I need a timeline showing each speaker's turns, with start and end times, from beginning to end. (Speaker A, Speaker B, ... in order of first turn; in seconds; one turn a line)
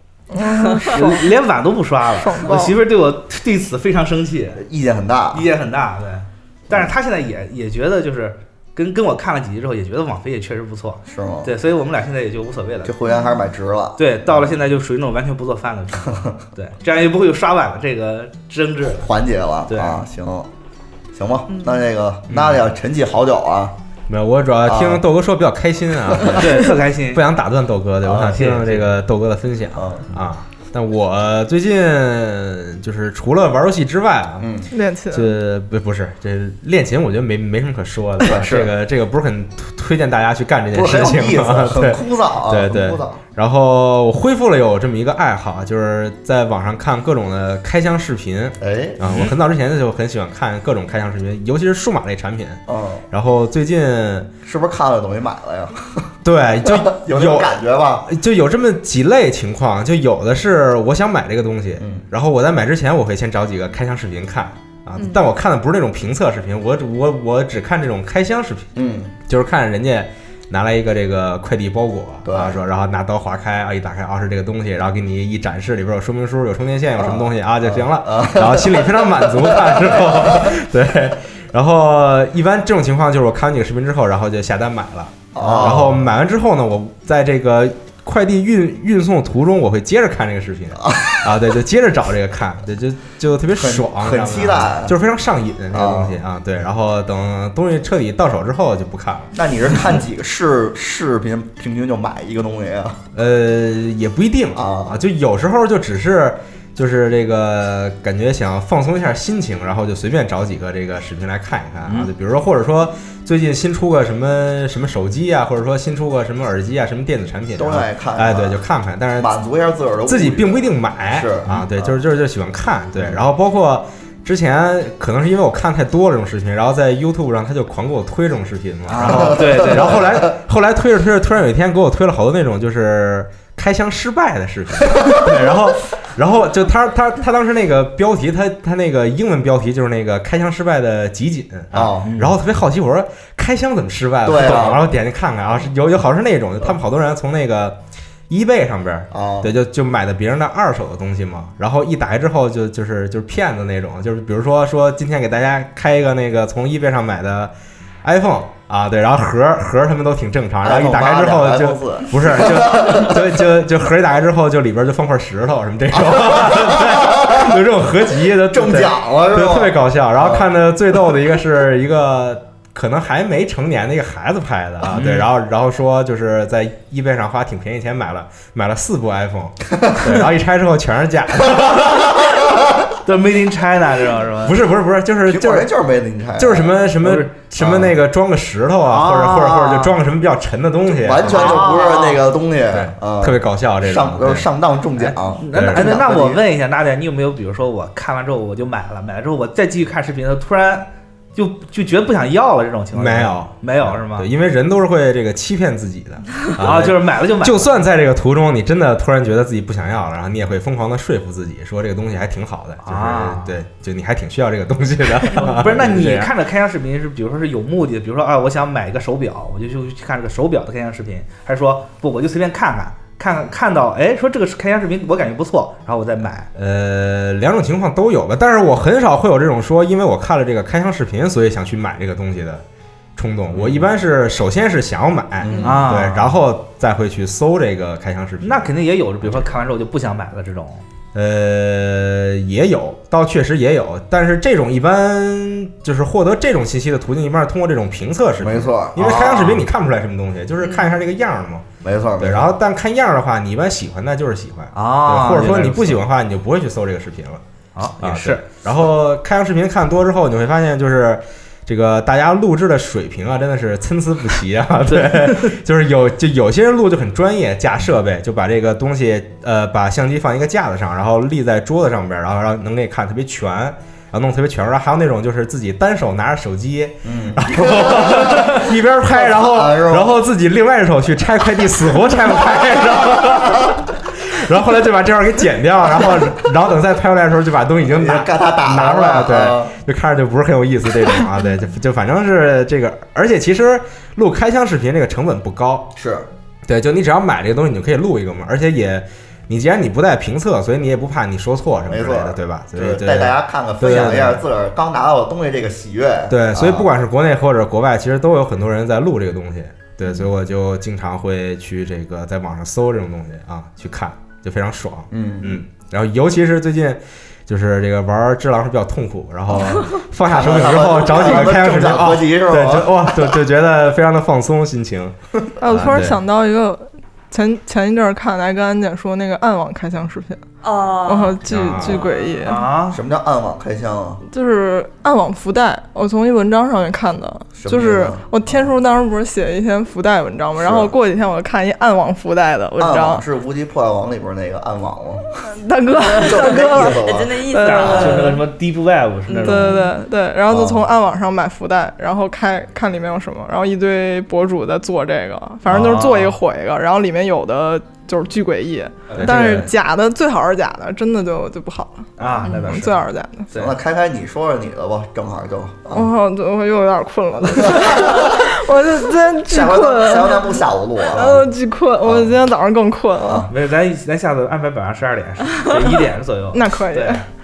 Speaker A: 0.3-1.3
Speaker B: 0.9-4.6
Speaker A: 2.1-2.8
Speaker C: 4.6-5.5
Speaker B: 5.3-12.9
Speaker C: 11.1-11.5
Speaker C: 12.8-14.5
Speaker B: 14.0-19.1
Speaker C: 16.0-16.3
Speaker C: 19.0-20.5
Speaker B: 19.7-20.0
Speaker C: 21.1-23.7
Speaker D: 21.5-21.9
Speaker E: 22.3-22.6
Speaker E: 24.1-52.6
Speaker C: 24.7-25.0
Speaker B: 26.3-27.3
Speaker C: 28.1-28.3
Speaker B: 28.2-28.9
Speaker C: 29.8-30.1
Speaker C: 34.4-34.7
Speaker A: 34.7-35.4
Speaker C: 38.2-38.7
Speaker C: 40.7-43.2
Speaker C: 48.6-49.3
Speaker C: 52.7-53.0
Speaker E: 53.1-54.3
Speaker C: 54.4-56.1
Speaker E: 56.2-57.5
Speaker C: 56.6-58.1
Speaker E: 58.0-68.7
Speaker C: 61.8-62.1
Speaker C: 68.8-69.1
Speaker E: 69.3-99.3
Speaker C: 72.3-72.6
Speaker C: 77.0-80.5
Speaker C: 85.3-86.1
Speaker C: 90.8-91.3
Speaker C: 93.5-95.0
Speaker C: 95.7-96.2
Speaker C: 99.3-103.0
Speaker E: 103.2-119.3
Speaker C: 104.6-105.0
Speaker B: 111.9-112.1
Speaker C: 117.6-118.6
Speaker C: 119.2-122.0
Speaker E: 120.1-147.8
Speaker B: 128.9-130.0
Speaker C: 128.9-130.3
Speaker C: 141.7-142.1
Speaker B: 142.0-142.4
Speaker C: 144.2-144.9
Speaker E: 148.3-182.4
Speaker C: 149.1-149.5
Speaker C: 160.6-163.3
Speaker C: 165.9-167.6
Speaker C: 168.5-170.5
Speaker B: 174.9-175.3
Speaker C: 179.8-180.2
Speaker C: 181.5-182.5
Speaker B: 183.1-184.6
Speaker E: 184.4-185.7
Speaker C: 185.3-186.9
Speaker E: 186.4-191.7
Speaker B: 187.0-187.3
Speaker C: 187.6-188.0
Speaker B: 188.9-190.0
Speaker C: 190.9-196.4
Speaker B: 191.3-192.1
Speaker E: 192.7-194.5
Speaker B: 195.0-204.3
Speaker E: 195.5-196.0
Speaker E: 202.9-216.3
Speaker B: 206.6-207.8
Speaker B: 212.8-213.6
Speaker B: 215.3-226.5
Speaker E: 226.6-232.6
Speaker E: 233.2-238.7
Speaker C: 235.4-236.0
Speaker B: 235.6-236.4
Speaker B: 238.4-240.8
Speaker E: 241.1-251.7
Speaker C: 248.4-249.7
Speaker D: 250.6-250.8
Speaker C: 251.8-252.5
Speaker E: 252.2-257.4
Speaker B: 254.7-256.0
Speaker B: 257.8-258.4
Speaker E: 258.0-295.9
Speaker B: 264.9-265.5
Speaker C: 277.1-280.2
Speaker C: 282.4-283.7
Speaker C: 287.9-289.7
Speaker C: 296.0-296.3
Speaker E: 296.7-304.4
Speaker C: 301.9-306.9
Speaker E: 306.3-325.1
Speaker C: 315.1-315.6
Speaker C: 319.5-323.4
Speaker A: 325.6-330.4
Speaker E: 325.7-326.2
Speaker D: 330.6-332.6
Speaker A: 331.1-332.7
Speaker E: 331.5-332.0
Speaker B: 332.4-333.0
Speaker C: 332.9-334.2
Speaker A: 334.3-343.2
Speaker C: 337.6-338.7
Speaker C: 340.6-340.9
Speaker C: 342.8-345.2
Speaker A: 345.5-348.4
Speaker D: 346.0-348.4
Speaker C: 346.1-348.1
Speaker B: 347.6-349.8
Speaker D: 349.3-349.9
Speaker A: 349.4-363.5
Speaker C: 350.5-350.9
Speaker B: 355.7-356.3
Speaker B: 359.1-359.7
Speaker B: 362.2-363.8
Speaker C: 363.5-366.1
Speaker A: 365.9-373.5
Speaker C: 367.4-368.5
Speaker C: 369.5-371.5
Speaker C: 372.0-372.4
Speaker C: 373.2-373.5
Speaker B: 373.5-377.2
Speaker A: 376.5-377.2